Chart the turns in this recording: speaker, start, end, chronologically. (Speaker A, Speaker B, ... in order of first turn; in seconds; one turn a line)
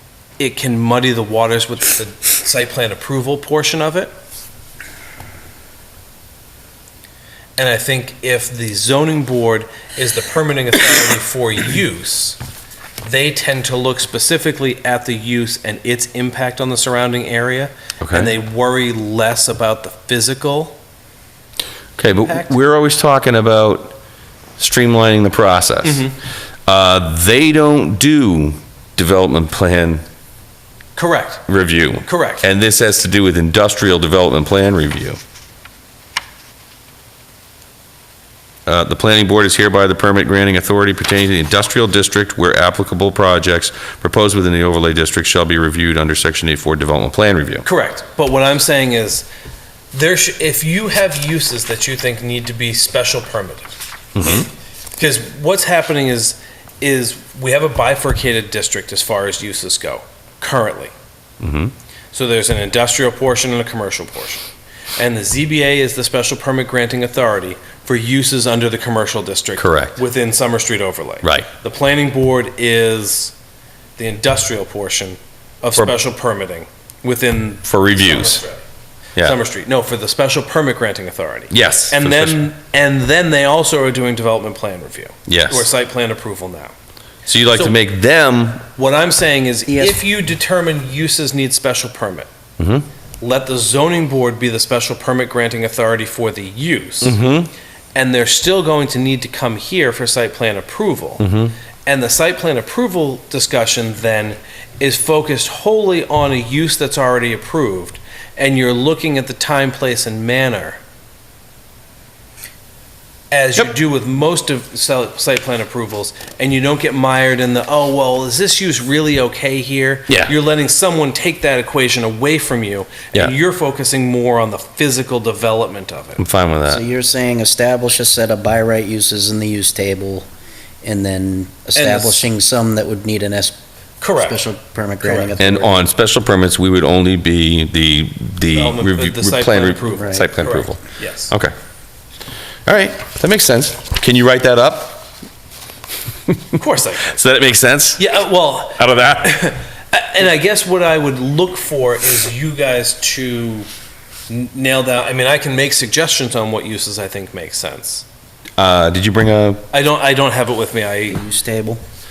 Speaker A: 0.4-4.1
Speaker A: 7.6-12.4
Speaker A: 13.0-20.8
Speaker B: 18.0-18.3
Speaker B: 22.0-24.0
Speaker A: 22.1-22.6
Speaker B: 24.6-26.0
Speaker A: 25.8-26.2
Speaker B: 26.7-30.0
Speaker A: 31.0-31.4
Speaker B: 31.5-35.2
Speaker A: 32.0-32.5
Speaker B: 38.7-47.6
Speaker A: 47.6-49.3
Speaker A: 49.9-53.7
Speaker B: 54.2-54.5
Speaker A: 55.0-60.9
Speaker B: 61.4-61.7
Speaker A: 62.1-64.4
Speaker A: 65.0-73.3
Speaker B: 69.6-70.0
Speaker A: 74.0-78.6
Speaker B: 77.7-78.4
Speaker A: 79.2-86.8
Speaker B: 81.5-82.4
Speaker B: 85.3-85.7
Speaker B: 87.3-88.7
Speaker A: 87.5-87.8
Speaker A: 88.8-92.3
Speaker C: 89.7-90.0
Speaker B: 92.6-92.9
Speaker A: 93.2-97.2
Speaker B: 97.0-97.5
Speaker A: 98.0-101.3
Speaker B: 101.2-101.5
Speaker A: 101.8-110.8
Speaker A: 113.3-126.2
Speaker B: 126.2-126.8
Speaker C: 126.7-130.3
Speaker C: 130.8-133.6
Speaker A: 131.8-132.3
Speaker A: 134.0-134.4
Speaker C: 134.2-135.9
Speaker A: 135.0-135.3
Speaker B: 135.4-141.5
Speaker A: 138.5-141.3
Speaker C: 140.0-140.3
Speaker B: 142.7-145.1
Speaker A: 146.5-147.2
Speaker B: 147.1-148.1
Speaker A: 148.0-153.7
Speaker B: 148.8-149.5
Speaker A: 154.3-158.1
Speaker B: 158.6-159.6
Speaker A: 159.7-161.2
Speaker C: 161.1-161.8